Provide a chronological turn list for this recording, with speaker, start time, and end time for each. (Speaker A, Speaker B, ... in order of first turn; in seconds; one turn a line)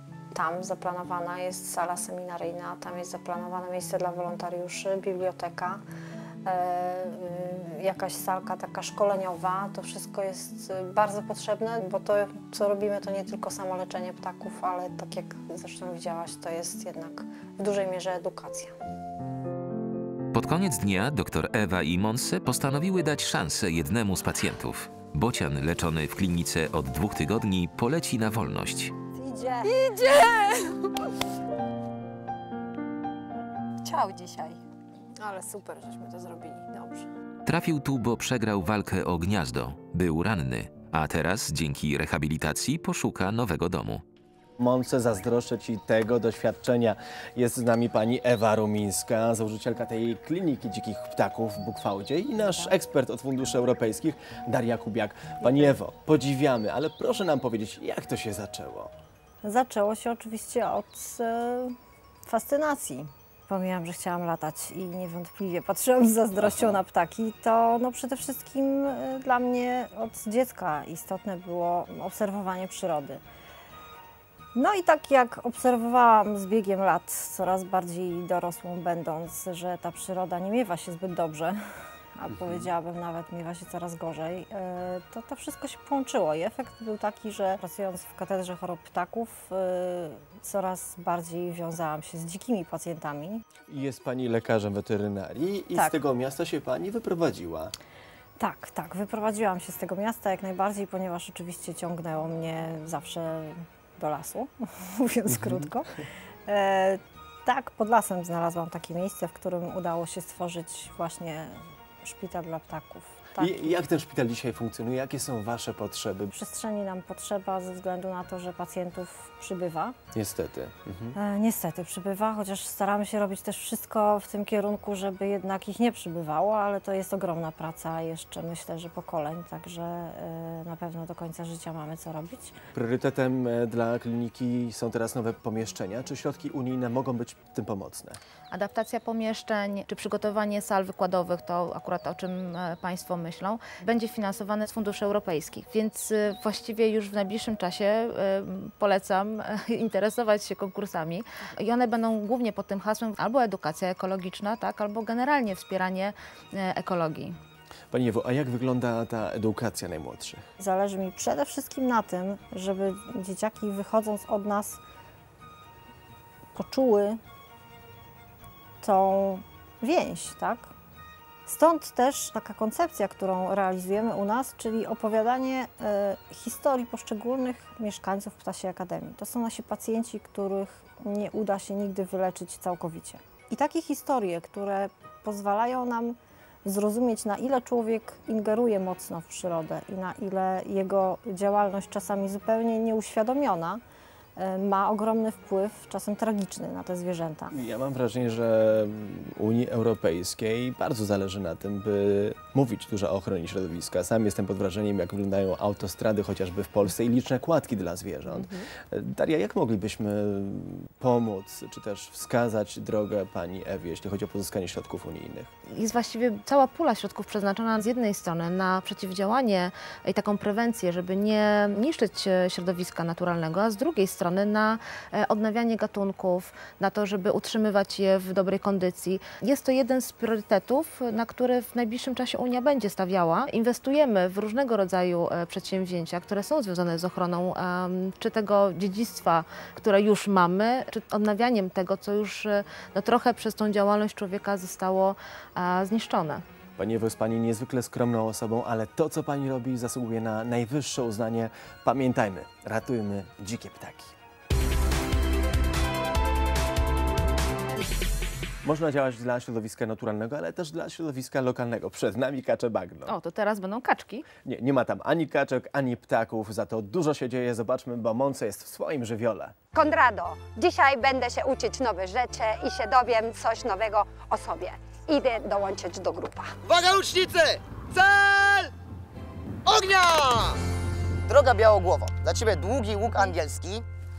Speaker A: 0.3-5.8
Speaker A: 6.5-18.8
Speaker B: 20.3-28.9
Speaker A: 29.1-30.5
Speaker C: 33.8-34.6
Speaker A: 35.2-37.1
Speaker B: 37.5-44.0
Speaker D: 44.6-58.9
Speaker A: 59.4-73.2
Speaker A: 74.5-93.4
Speaker D: 93.7-97.7
Speaker A: 98.4-105.9
Speaker A: 106.5-113.7
Speaker D: 113.4-116.3
Speaker A: 116.3-120.0
Speaker D: 120.1-121.2
Speaker A: 121.2-132.6
Speaker D: 132.7-138.2
Speaker E: 138.5-157.4
Speaker D: 157.9-160.5
Speaker A: 160.6-164.8
Speaker A: 166.5-167.2
Speaker A: 168.8-170.7
Speaker A: 171.5-193.8
Speaker A: 194.4-197.6
Speaker D: 197.5-215.5
Speaker E: 208.3-208.7
Speaker E: 215.8-246.4
Speaker D: 246.8-254.1
Speaker D: 258.6-263.1
Speaker E: 263.1-264.3
Speaker D: 264.4-269.6
Speaker C: 269.7-276.5
Speaker F: 276.7-278.7
Speaker F: 279.7-280.6
Speaker F: 281.3-283.9